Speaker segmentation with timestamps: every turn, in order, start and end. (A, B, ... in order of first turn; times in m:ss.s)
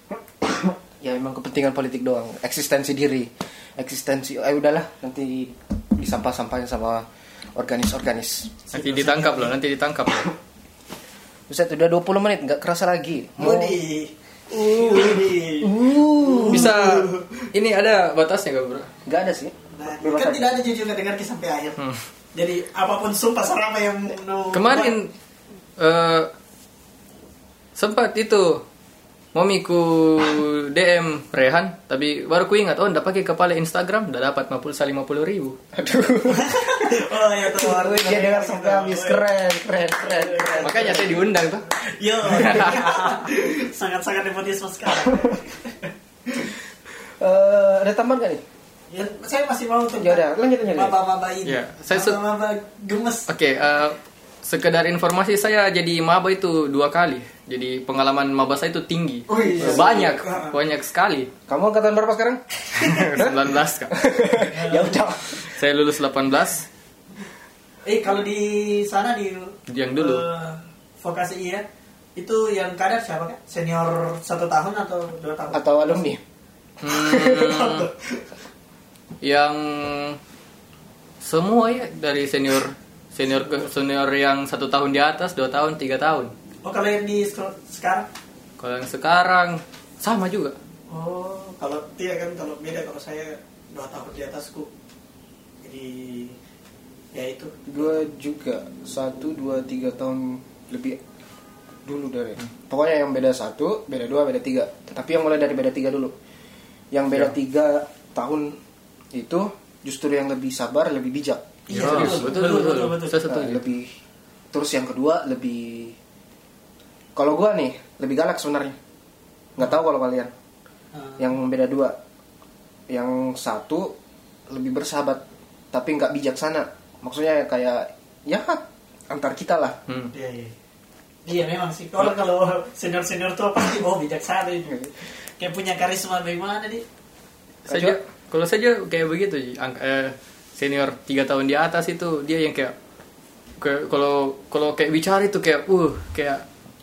0:00.4-0:07.0 A
0:07.6-0:08.6 A
0:08.7-0:09.5 B
0:08.7-0:10.3 C
0:11.5-0:13.8 A
0:13.4-0:17.5 B
0:14.5-0:16.8 A
0:16.5-0:18.9 C
0:19.0-0:20.5 A
0:19.7-0:21.8 B
0:22.3-0:24.9 B
0:24.5-0:25.1 C
0:25.8-0:26.3 C
0:27.8-0:28.6 C
0:29.3-0:35.6 C
0:35.7-0:41.2 A
0:36.3-0:39.2 B
0:40.0-0:41.1 B
0:40.6-0:43.2 C
0:41.7-0:46.5 B
0:47.2-0:48.4 A
0:48.9-0:53.3 B
0:50.0-0:51.0 A
0:51.4-0:52.2 C
0:53.3-1:01.3 C
0:59.3-1:00.6 B
0:59.6-0:59.9 A
1:01.5-1:02.4 A
1:02.7-1:04.0 C
1:03.0-1:05.5 A
1:04.5-1:05.0 B
1:05.3-1:06.7 C
1:07.8-1:11.6 B
1:09.7-1:10.2 C
1:12.2-1:16.0 B
1:15.5-1:16.2 A
1:16.8-1:17.9 C
1:16.9-1:18.2 B
1:19.2-1:20.2 C
1:21.2-1:26.3 C
1:26.6-1:28.1 B
1:28.6-1:30.6 C
1:30.9-1:34.7 B
1:35.6-1:36.4 B
1:37.1-1:37.9 B
1:37.7-1:41.0 A
1:41.8-1:46.1 A
1:46.9-1:48.6 A
1:49.1-1:52.3 A
1:51.7-1:53.2 B
1:51.7-1:53.6 C
1:53.2-1:53.9 A
1:54.5-1:56.0 A
1:57.2-1:58.8 A
1:59.6-2:00.3 A
2:00.9-2:01.2 B
2:01.2-2:02.0 A
2:02.9-2:03.9 A
2:04.5-2:09.8 A
2:09.9-2:10.1 C
2:10.1-2:10.5 B
2:11.2-2:16.8 B
2:17.7-2:22.7 C
2:17.7-2:18.0 A
2:23.6-2:26.4 C